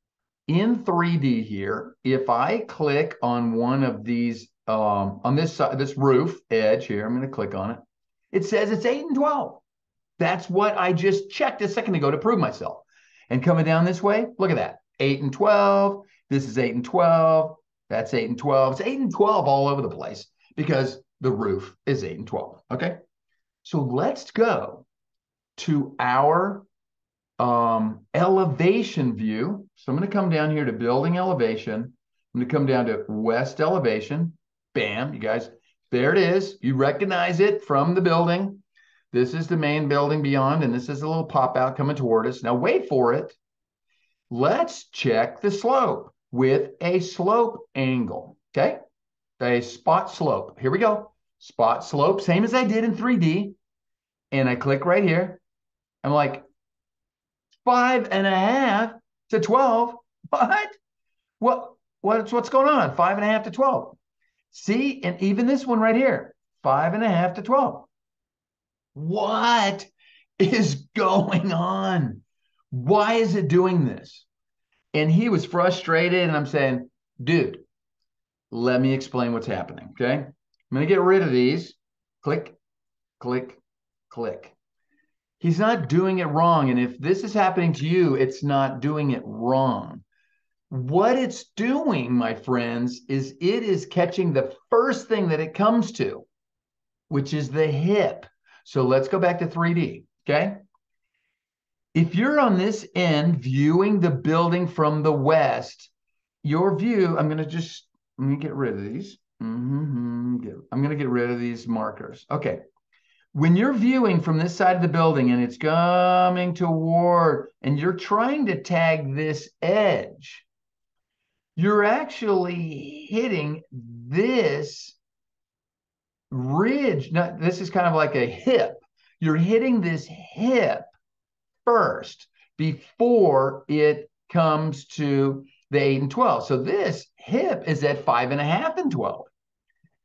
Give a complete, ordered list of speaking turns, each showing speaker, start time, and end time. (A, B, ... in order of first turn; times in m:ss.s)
0:00.5-0:07.8 A
0:08.3-0:09.6 A
0:10.2-0:23.0 A
0:23.6-0:24.9 A
0:25.6-0:26.7 A
0:27.4-0:43.4 A
0:44.3-0:48.8 A
0:49.4-0:53.6 A
0:54.3-0:55.4 A
0:56.0-0:56.4 A
0:57.6-1:00.8 A
1:01.4-1:04.0 A
1:04.5-1:07.9 A
1:09.0-1:14.3 A
1:14.9-1:17.6 A
1:18.5-1:22.6 A
1:23.2-1:24.6 A
1:25.4-1:30.0 A
1:30.7-1:36.3 A
1:37.1-1:40.6 A
1:41.9-1:45.9 A
1:46.4-1:52.6 A
1:53.3-2:00.4 A
2:01.6-2:05.0 A
2:06.3-2:10.8 A
2:11.6-2:19.3 A